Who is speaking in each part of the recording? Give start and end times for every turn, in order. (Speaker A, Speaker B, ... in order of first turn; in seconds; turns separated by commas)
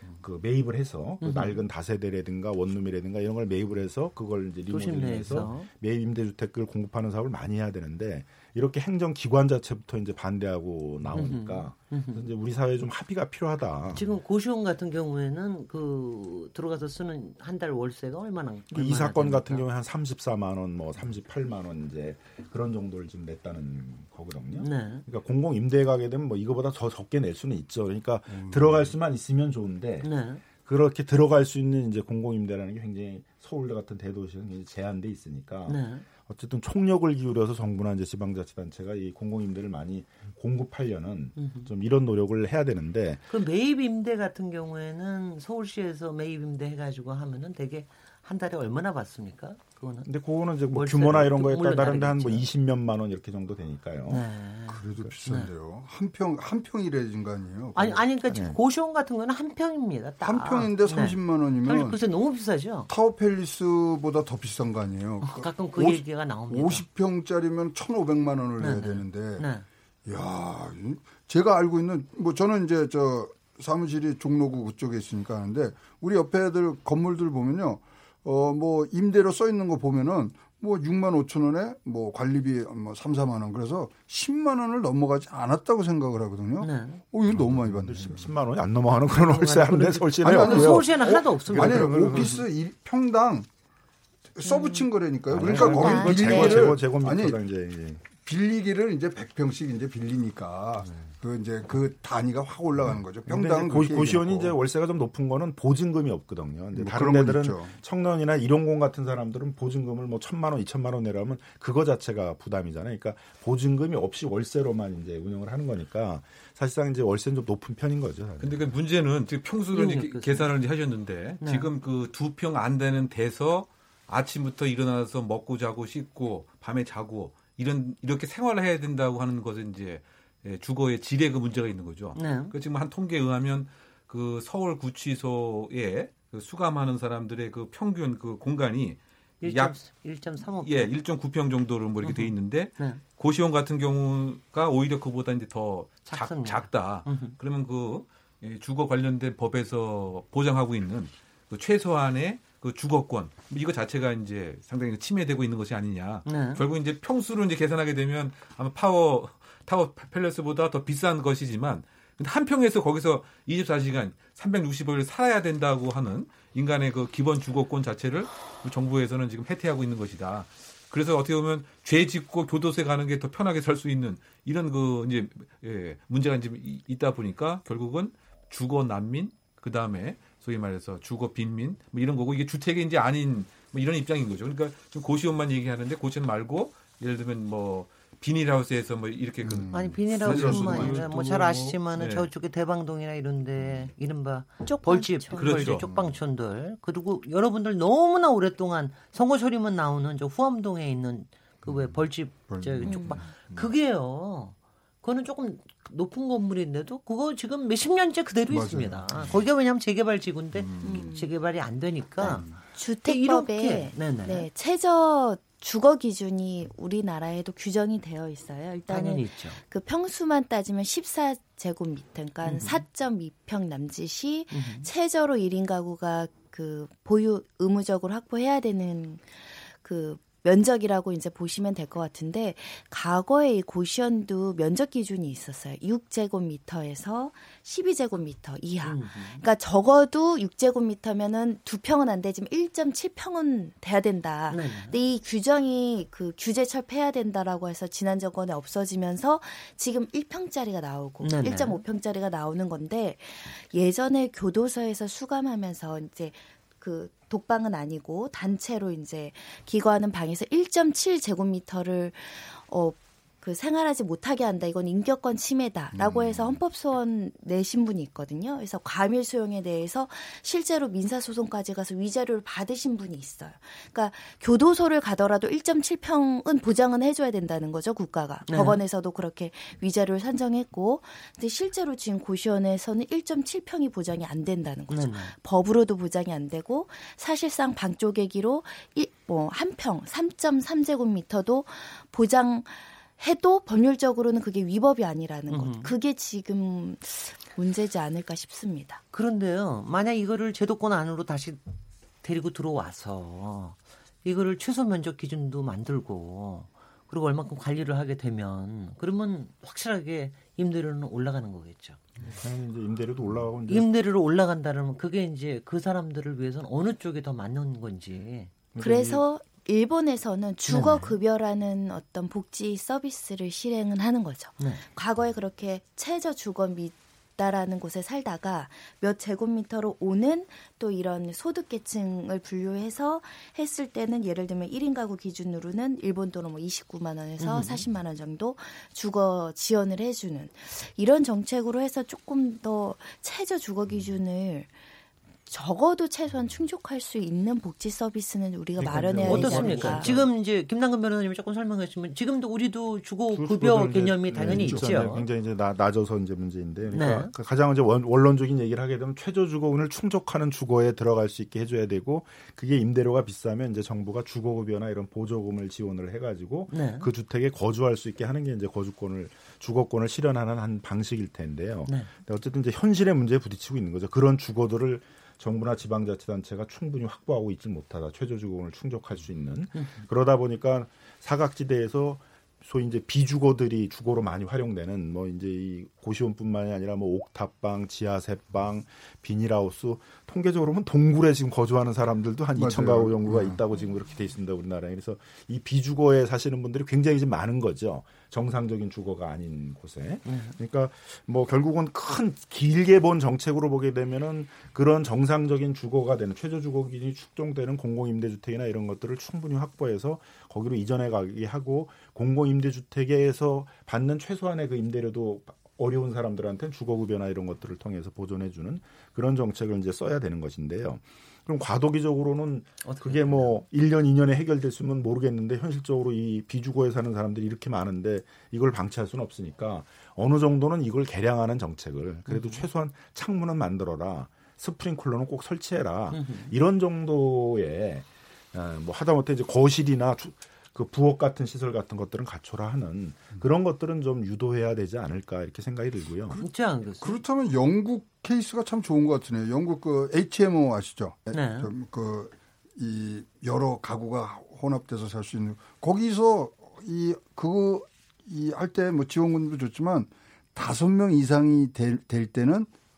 Speaker A: 0.2-14.0, Speaker B: 1.2-1.6, Speaker B: 4.7-5.7, Speaker B: 11.1-12.2, Speaker B: 13.9-19.6, Speaker A: 18.7-43.2, Speaker B: 24.6-25.1, Speaker B: 30.0-30.4, Speaker B: 35.7-36.0, Speaker B: 41.4-41.7, Speaker B: 43.3-50.1, Speaker A: 50.0-54.2, Speaker B: 50.7-52.5, Speaker B: 54.1-55.5, Speaker C: 54.7-58.0, Speaker B: 57.7-62.9, Speaker A: 58.3-58.6, Speaker C: 60.2-62.0, Speaker C: 62.9-69.5, Speaker B: 65.2-66.8, Speaker B: 68.6-69.7, Speaker C: 70.0-88.2, Speaker B: 86.6-87.0, Speaker A: 87.3-92.4, Speaker B: 89.1-92.3, Speaker C: 90.2-93.5, Speaker C: 94.3-97.4, Speaker D: 94.4-94.9, Speaker A: 95.3-98.0, Speaker D: 95.4-96.7, Speaker C: 98.1-104.5, Speaker A: 103.2-118.7, Speaker C: 106.7-107.7, Speaker E: 118.4-139.8, Speaker B: 119.7-120.5, Speaker B: 121.4-121.7, Speaker B: 132.1-132.5, Speaker B: 139.4-140.9, Speaker E: 140.6-192.3, Speaker B: 142.0-143.0, Speaker B: 146.1-147.3, Speaker B: 156.2-156.6, Speaker C: 189.6-191.1, Speaker B: 189.7-212.5, Speaker D: 194.6-195.7, Speaker E: 195.3-195.8, Speaker C: 202.3-203.6, Speaker D: 202.8-203.2, Speaker C: 208.5-209.2, Speaker D: 210.8-211.3, Speaker C: 212.2-212.6, Speaker D: 212.7-299.0, Speaker B: 213.0-214.5, Speaker B: 218.9-219.6, Speaker B: 222.4-222.8, Speaker B: 224.5-224.9, Speaker B: 238.8-239.4, Speaker B: 244.5-245.0, Speaker B: 251.2-251.8, Speaker C: 265.9-266.6, Speaker B: 278.5-278.8, Speaker B: 284.9-285.3, Speaker B: 295.5-295.9, Speaker B: 299.1-301.6, Speaker B: 302.2-312.0, Speaker A: 312.2-313.9, Speaker B: 313.7-318.5, Speaker A: 318.7-319.2, Speaker D: 318.8-344.7, Speaker B: 320.6-321.2, Speaker B: 337.4-337.8, Speaker D: 345.5-350.1, Speaker A: 348.8-350.3, Speaker B: 349.2-355.2, Speaker A: 353.3-446.4, Speaker C: 354.4-355.2, Speaker B: 356.9-357.3, Speaker B: 366.7-367.1, Speaker B: 371.9-372.1, Speaker B: 379.7-380.0, Speaker C: 392.6-393.6, Speaker B: 400.2-400.6, Speaker B: 422.8-423.6, Speaker B: 432.3-432.6, Speaker B: 436.1-436.5, Speaker C: 446.3-462.7, Speaker B: 446.4-447.2, Speaker B: 451.3-451.7